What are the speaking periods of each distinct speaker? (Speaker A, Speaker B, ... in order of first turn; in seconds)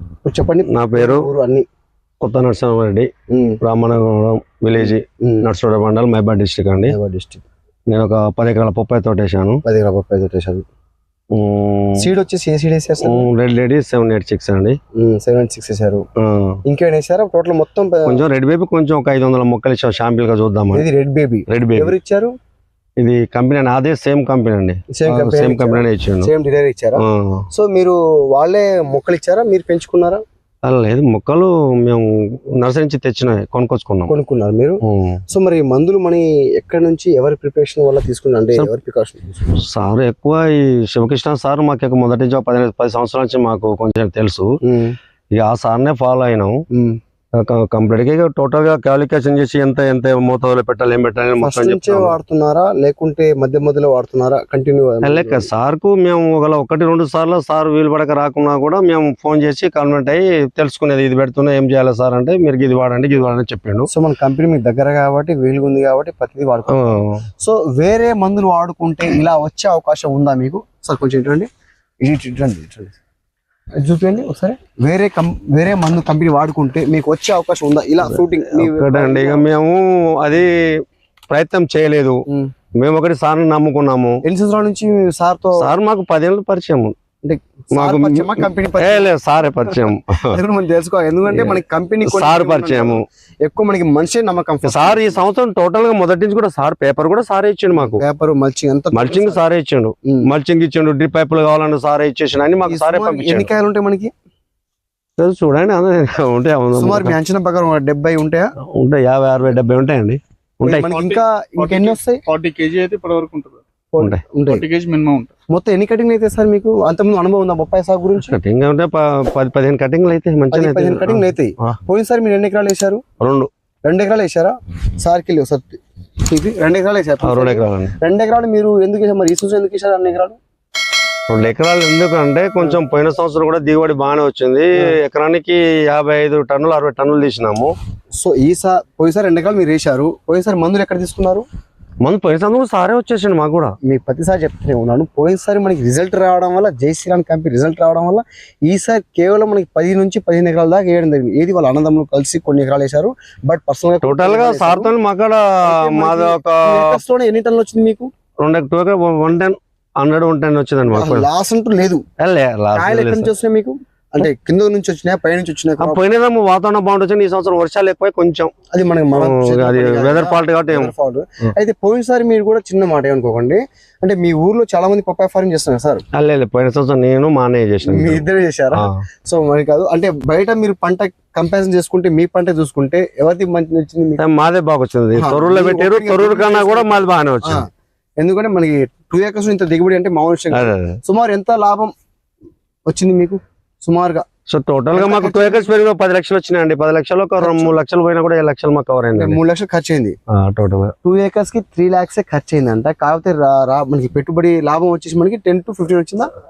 Speaker A: 0.2-1.6, 3.3-3.6, 4.8-5.4, 6.9-7.4, 9.6-10.6, 12.0-13.3, 15.0-16.0, 16.6-18.2, 20.7-22.3, 24.9-30.2, 34.1-34.8, 35.3-39.6, 44.6-45.0, 46.7-47.0, 51.4-55.5, 63.9-66.9, 67.4-71.5, 72.0-73.0, 73.8-79.5, 84.2-85.7, 87.2-89.1, 89.7-95.2, 97.7-99.4, 102.7-104.1, 106.7-108.5, 110.6-112.2, 113.9-114.6, 115.5-118.3, 120.5-123.0, 123.8-130.4, 138.2-141.4, 143.9-154.9, 155.6-158.1, 160.9-162.0, 162.7-166.0, 168.7-176.0, 177.9-184.2, 185.1-187.7, 188.2-191.9, 192.9-194.2, 194.9-195.7, 197.4-197.8, 199.2-200.2, 201.0-206.3
Speaker B: 0.7-1.3, 2.2-3.1, 3.6-7.0, 7.9-9.6, 11.3-12.0, 13.0-14.8, 16.2-16.6, 18.1-20.8, 21.5-21.9, 23.0-26.3, 27.0-27.4, 30.6-34.1, 34.8-35.2, 39.6-44.5, 45.3-46.5, 47.4-52.1, 55.0-63.9, 66.7-67.2, 78.0-80.5, 81.3-82.2, 82.8-84.2, 85.6-86.9, 87.7-90.3, 92.0-93.0, 94.7-98.0, 98.9-103.5, 105.2-107.2, 108.7-110.9, 118.3-121.8, 123.2-123.5, 127.2-127.9, 131.3-137.7, 142.0-143.7, 154.0-156.9, 158.4-161.3, 162.2-163.3, 165.8-168.5, 169.1-170.9, 176.2-179.0, 184.2-187.6, 190.5-191.0, 194.5-199.4, 200.3-200.9
Speaker C: 110.9-113.6, 114.5-115.3